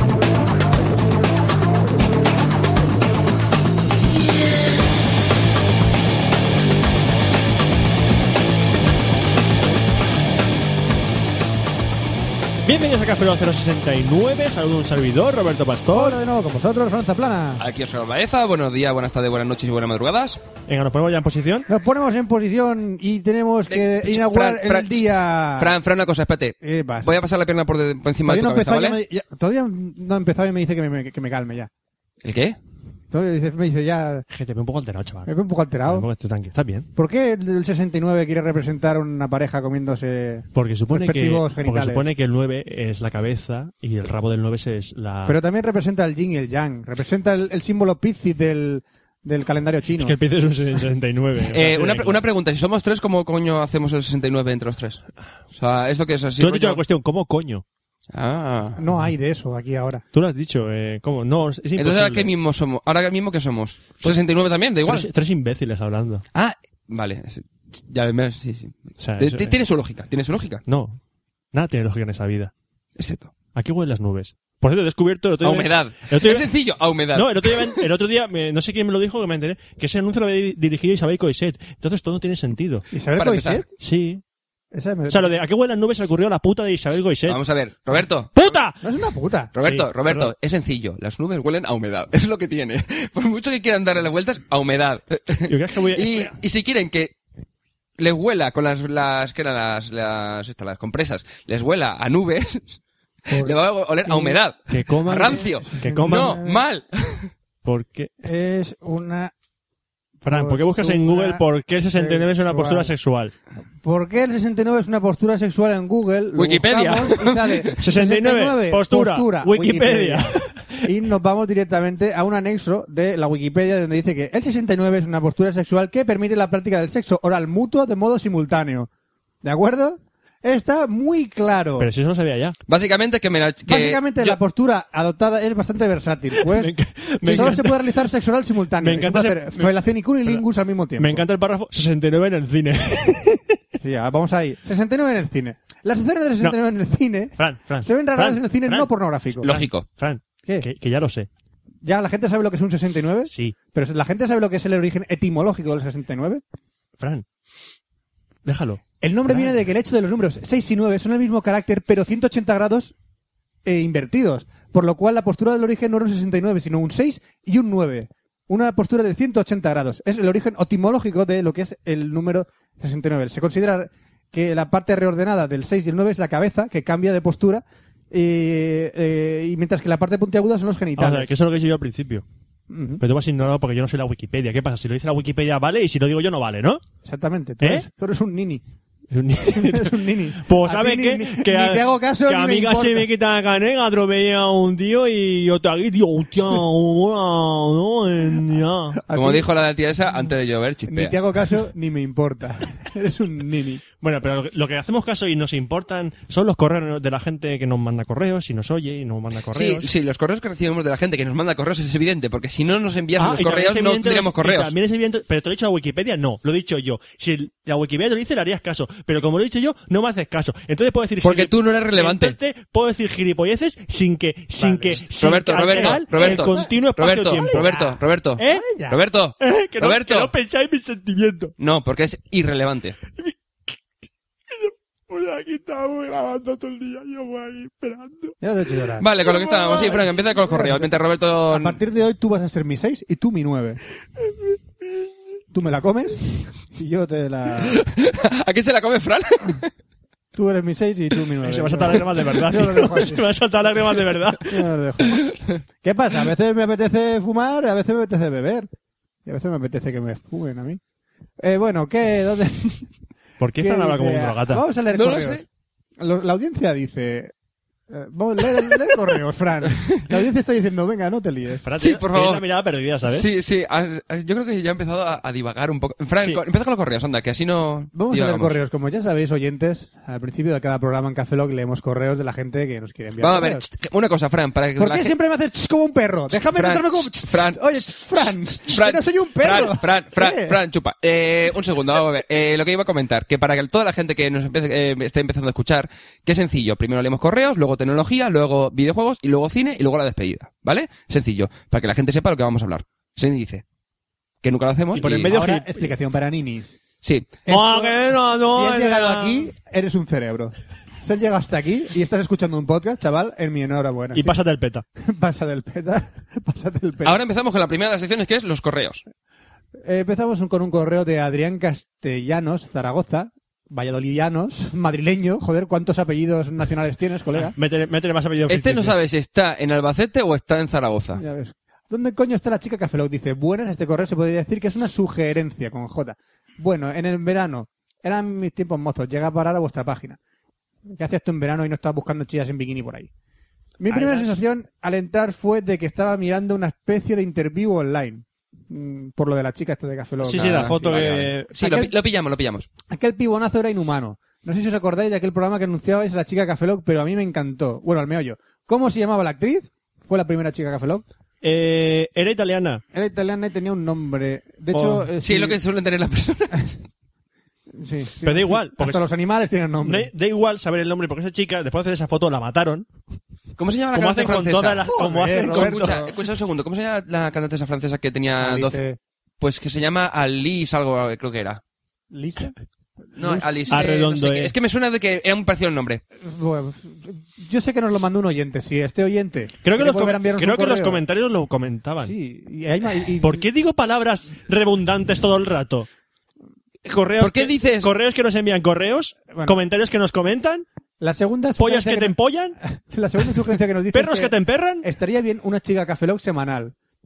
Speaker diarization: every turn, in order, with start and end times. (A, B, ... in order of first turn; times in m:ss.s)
0:12.6-0:16.2 A
0:15.9-0:17.6 B
0:17.6-0:20.4 C
0:20.7-0:21.7 A
0:21.7-0:25.7 B
0:23.7-0:29.0 C
0:26.6-0:27.2 B
0:28.2-0:31.7 B
0:32.2-0:32.6 C
0:33.1-0:34.3 B
0:34.3-0:35.3 A
0:35.3-0:36.1 B
0:35.9-0:36.9 A
0:37.0-0:42.1 B
0:40.6-0:45.4 A
0:45.3-0:50.2 B
0:50.0-0:52.2 A
0:51.5-0:56.8 C
0:56.4-0:57.6 A
0:58.1-0:58.8 C
0:58.8-1:00.0 B
1:00.1-1:02.3 A
1:01.8-1:05.1 C
1:04.9-1:06.2 A
1:06.3-1:10.6 C
1:09.0-1:09.6 A
1:10.7-1:11.0 A
1:11.5-1:12.5 A
1:13.0-1:13.3 C
1:13.6-1:16.5 A
1:15.4-1:17.8 C
1:17.1-1:22.8 A
1:22.9-1:23.7 B
1:23.2-1:23.6 C
1:23.8-1:24.2 A
1:24.7-1:25.4 B
1:25.1-1:27.4 A
1:27.3-1:28.5 C
1:28.4-1:28.8 A
1:28.8-1:29.5 B
1:29.5-1:37.2 C
1:29.6-1:30.3 A
1:35.5-1:36.3 A
1:38.0-1:42.8 C
1:43.3-1:44.4 B
1:43.4-1:47.3 C
1:44.7-1:46.4 A
1:45.1-1:46.6 B
1:47.6-1:48.1 A
1:48.2-1:49.3 B
1:50.2-1:52.9 B
1:50.3-1:53.4 A
1:53.8-2:08.9 B
1:56.4-1:57.8 C
1:57.8-2:00.9 A
2:09.4-2:11.9 B
2:11.8-2:12.6 A
2:12.7-2:14.4 C
2:13.7-2:21.2 B
2:16.4-2:17.8 A
2:17.3-2:17.5 C
2:18.8-2:19.7 A
2:21.0-2:23.5 A
2:23.8-2:29.5 B
2:27.4-2:31.3 A
2:29.4-2:29.8 C
2:31.8-2:36.4 B
2:33.3-2:33.6 A
2:37.0-2:37.2 A
2:38.4-2:39.5 A
2:39.0-2:42.9 B
2:43.6-3:01.3 B
3:01.0-3:02.2 A
3:02.7-3:03.0 B
3:03.0-3:06.8 A
3:07.0-3:08.6 B
3:09.1-3:19.0 A
3:09.4-3:13.1 B
3:19.0-3:19.5 B
3:19.1-3:21.2 C
3:20.9-3:23.8 B
3:24.0-3:29.9 A
3:29.5-3:34.7 C
3:33.2-3:47.7 A
3:41.2-3:42.4 C
3:44.6-3:45.0 B
3:45.0-3:50.3 C
3:45.7-3:46.7 B
3:47.3-3:48.0 B
3:48.4-3:48.7 A
3:48.5-3:49.0 B
3:49.4-3:51.5 A
3:51.6-3:53.0 C
3:54.5-3:58.4 A
3:58.4-3:59.1 B
3:59.0-4:01.8 C
3:59.2-4:00.0 A
3:59.8-4:00.9 B
4:01.5-4:03.8 B
4:05.5-4:07.8 B
4:07.7-4:09.7 C
4:10.3-4:13.3 B
4:11.4-4:14.6 A
4:13.9-4:15.2 B
4:15.1-4:15.6 C
4:15.8-4:18.7 B
4:19.3-4:20.8 B
4:21.4-4:22.9 B
4:23.4-4:24.6 A
4:23.6-4:25.4 B
4:24.9-4:25.4 C
4:26.0-4:27.3 B
4:27.9-4:31.7 B
4:31.6-4:33.3 A
4:31.8-4:32.4 C
4:33.0-4:38.6 C
4:38.0-4:43.6 B
4:43.2-4:45.2 C
4:44.8-4:50.6 B
4:46.4-4:47.6 C
4:48.7-5:03.6 C
5:04.4-5:05.3 C
5:05.0-5:05.9 A
5:05.0-5:06.8 B
5:07.0-5:07.3 C
5:07.5-5:14.4 B
5:07.5-5:09.5 A
5:14.1-5:14.8 A
5:15.0-5:17.2 B
5:17.0-5:19.0 C
5:19.8-5:27.6 B
5:27.4-5:29.0 A
5:28.5-5:31.2 C
5:31.2-5:40.2 B
5:40.9-5:43.1 B
5:43.8-5:50.8 B
5:43.9-5:44.4 A
5:50.2-5:51.8 A
5:50.3-5:52.7 C
5:51.6-5:51.9 B
5:52.9-6:01.0 B
6:01.4-6:02.8 A
6:02.9-6:05.6 B
6:04.7-6:05.1 A
6:05.2-6:06.8 C
6:07.7-6:10.1 B
6:08.2-6:09.1 A
6:09.8-6:12.9 A
6:13.6-6:18.8 C
6:13.9-6:15.9 A
6:14.9-6:16.2 B
6:18.4-6:19.0 B
6:19.4-6:21.6 C
6:22.1-6:22.6 B
6:23.2-6:23.8 B
6:23.2-6:26.0 C
6:23.7-6:24.5 A
6:26.2-6:31.0 B
6:29.6-6:32.2 A
6:32.0-6:33.5 B
6:33.2-6:35.9 A
6:36.8-6:40.6 A
6:37.2-6:37.9 C
6:39.3-6:39.6 B
6:41.0-6:46.8 B
6:41.6-6:42.6 A
6:43.9-6:44.9 A